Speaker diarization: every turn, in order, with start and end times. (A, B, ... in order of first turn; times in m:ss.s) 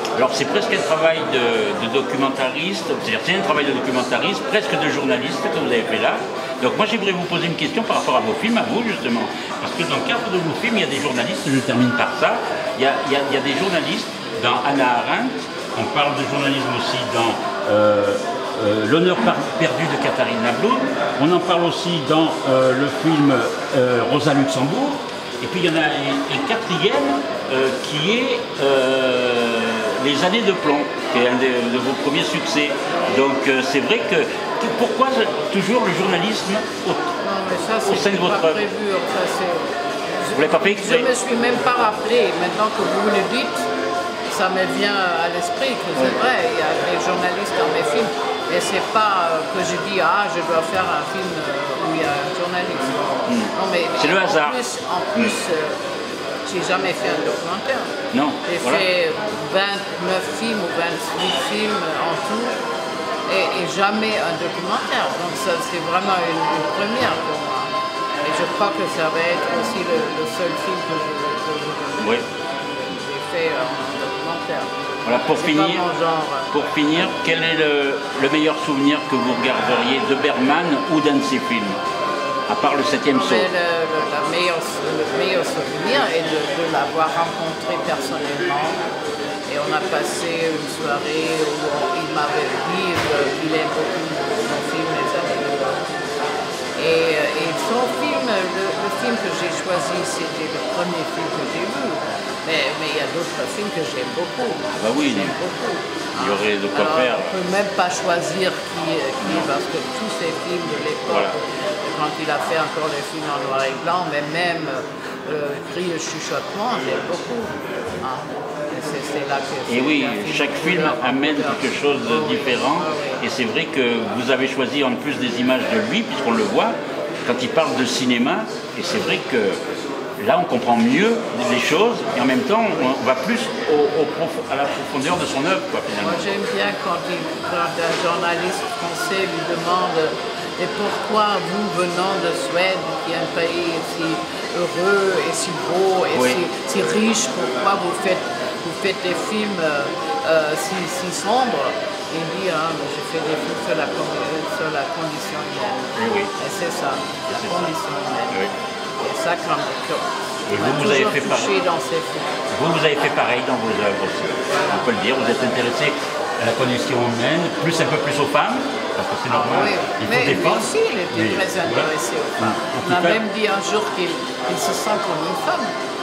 0:00.2-0:37.1 A
0:37.2-0:39.6 B
0:37.9-0:38.6 A
0:40.2-0:43.7 B
0:40.3-0:41.1 A
0:44.3-0:55.8 B
0:53.3-0:54.6 A
0:56.5-0:57.9 B
0:58.1-0:58.9 A
0:58.5-1:02.6 B
1:03.3-1:16.5 B
1:12.0-1:12.2 A
1:15.0-1:15.8 A
1:16.5-1:21.8 A
1:22.5-1:23.5 A
1:23.1-1:28.8 B
1:29.5-1:36.0 B
1:36.8-2:03.2 B
1:44.7-1:45.4 A
1:46.2-1:47.3 A
1:51.1-1:51.4 A
1:59.7-2:09.6 A
2:10.2-2:16.2 A
2:16.0-2:38.4 B
2:26.1-2:26.4 A
2:36.0-2:36.3 A
2:37.3-2:37.7 A
2:39.0-2:42.4 B
2:40.5-2:41.5 A
2:42.5-2:53.2 A
2:49.3-2:55.7 B